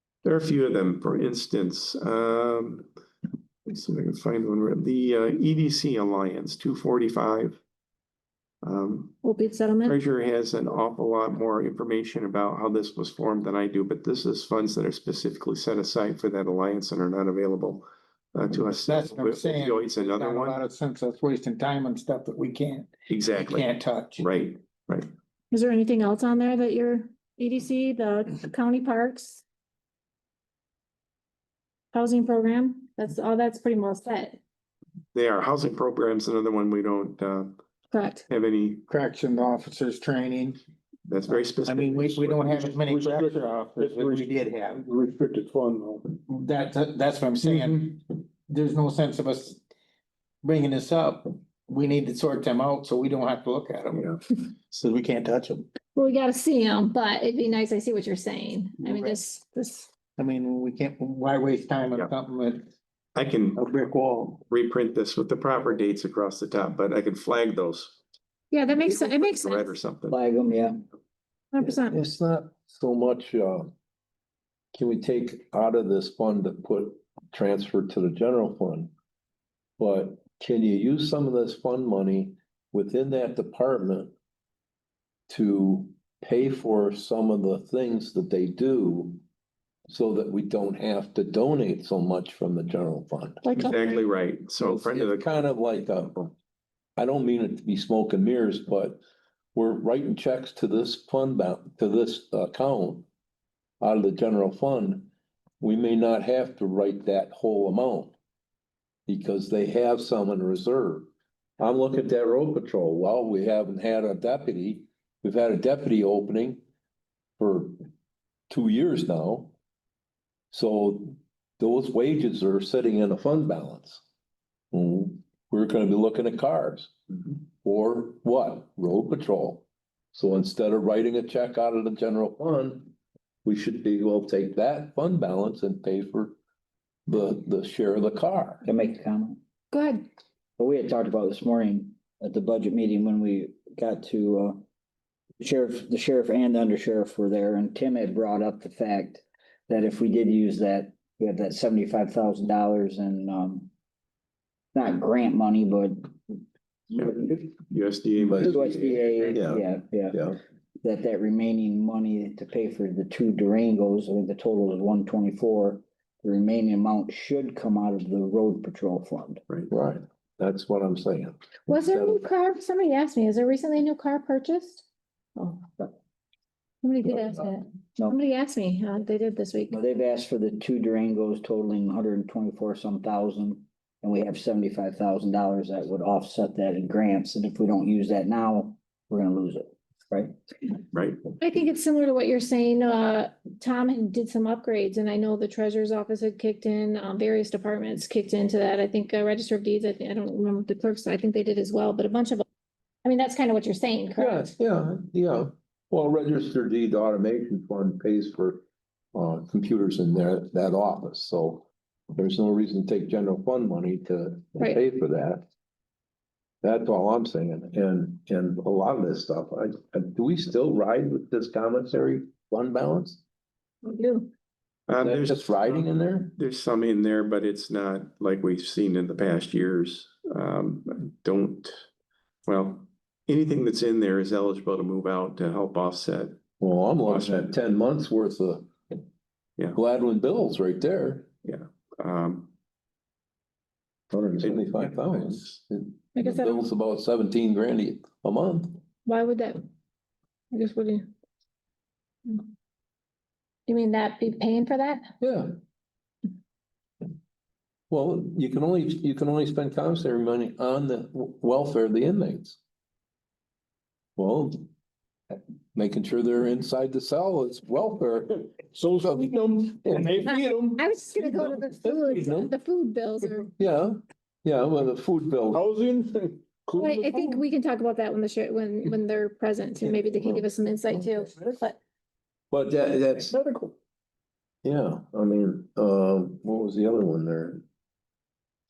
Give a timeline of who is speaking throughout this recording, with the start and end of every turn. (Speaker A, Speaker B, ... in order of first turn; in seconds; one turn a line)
Speaker A: 0.2-2.9
Speaker A: 3.7-7.6
Speaker A: 8.6-9.2
Speaker B: 9.2-10.0
Speaker A: 9.8-20.6
Speaker C: 18.9-24.3
Speaker A: 23.1-25.1
Speaker B: 25.5-29.4
Speaker B: 31.9-34.4
Speaker A: 35.1-37.6
Speaker B: 37.9-38.2
Speaker A: 38.3-38.8
Speaker C: 38.9-40.6
Speaker A: 41.1-42.6
Speaker C: 41.6-44.8
Speaker D: 42.5-46.1
Speaker C: 46.3-49.6
Speaker C: 50.4-55.7
Speaker B: 56.0-59.9
Speaker C: 58.8-59.2
Speaker C: 60.2-62.7
Speaker A: 63.1-63.7
Speaker C: 63.5-64.4
Speaker A: 64.5-68.0
Speaker B: 68.5-69.8
Speaker A: 68.8-70.2
Speaker E: 70.1-70.8
Speaker B: 71.5-72.0
Speaker F: 71.6-73.7
Speaker F: 74.7-78.9
Speaker F: 79.8-84.1
Speaker F: 85.3-89.2
Speaker F: 89.9-93.5
Speaker B: 93.4-94.0
Speaker A: 93.5-95.3
Speaker F: 94.6-96.3
Speaker F: 97.0-99.0
Speaker F: 99.5-103.1
Speaker F: 103.8-105.1
Speaker F: 105.6-108.1
Speaker F: 109.1-116.6
Speaker F: 117.4-117.8
Speaker F: 118.5-119.5
Speaker F: 120.5-124.0
Speaker F: 124.7-132.9
Speaker F: 133.4-136.4
Speaker F: 137.1-138.7
Speaker E: 138.7-139.4
Speaker B: 139.7-140.1
Speaker E: 140.6-144.7
Speaker E: 145.4-153.7
Speaker E: 154.8-156.3
Speaker E: 156.9-157.4
Speaker A: 156.9-159.3
Speaker F: 158.3-158.6
Speaker E: 158.4-169.4
Speaker F: 159.3-160.4
Speaker F: 169.7-172.2
Speaker B: 171.7-175.9
Speaker B: 176.8-179.8
Speaker E: 179.7-190.3
Speaker A: 190.9-191.2
Speaker B: 191.4-202.4
Speaker B: 203.0-204.5
Speaker F: 204.2-215.5
Speaker F: 216.6-223.2
Speaker B: 223.8-224.3
Speaker A: 224.9-231.8
Speaker F: 225.0-226.3
Speaker A: 232.5-236.4
Speaker F: 236.6-238.7
Speaker A: 237.1-237.5
Speaker F: 239.8-241.3
Speaker A: 241.4-242.5
Speaker F: 244.1-248.8
Speaker A: 244.4-245.5
Speaker B: 246.2-246.6
Speaker B: 249.1-249.6
Speaker B: 250.5-251.1
Speaker B: 253.7-255.1
Speaker F: 255.2-255.5
Speaker F: 257.9-262.6
Speaker F: 264.2-264.7
Speaker F: 265.8-268.4
Speaker D: 268.6-271.7
Speaker F: 269.0-270.7
Speaker B: 270.2-273.5
Speaker F: 271.2-272.5
Speaker F: 273.6-275.6
Speaker D: 275.5-277.4
Speaker B: 276.8-281.8
Speaker F: 279.9-280.4
Speaker D: 281.1-281.6
Speaker F: 282.5-283.4
Speaker D: 283.1-283.8
Speaker F: 284.6-287.6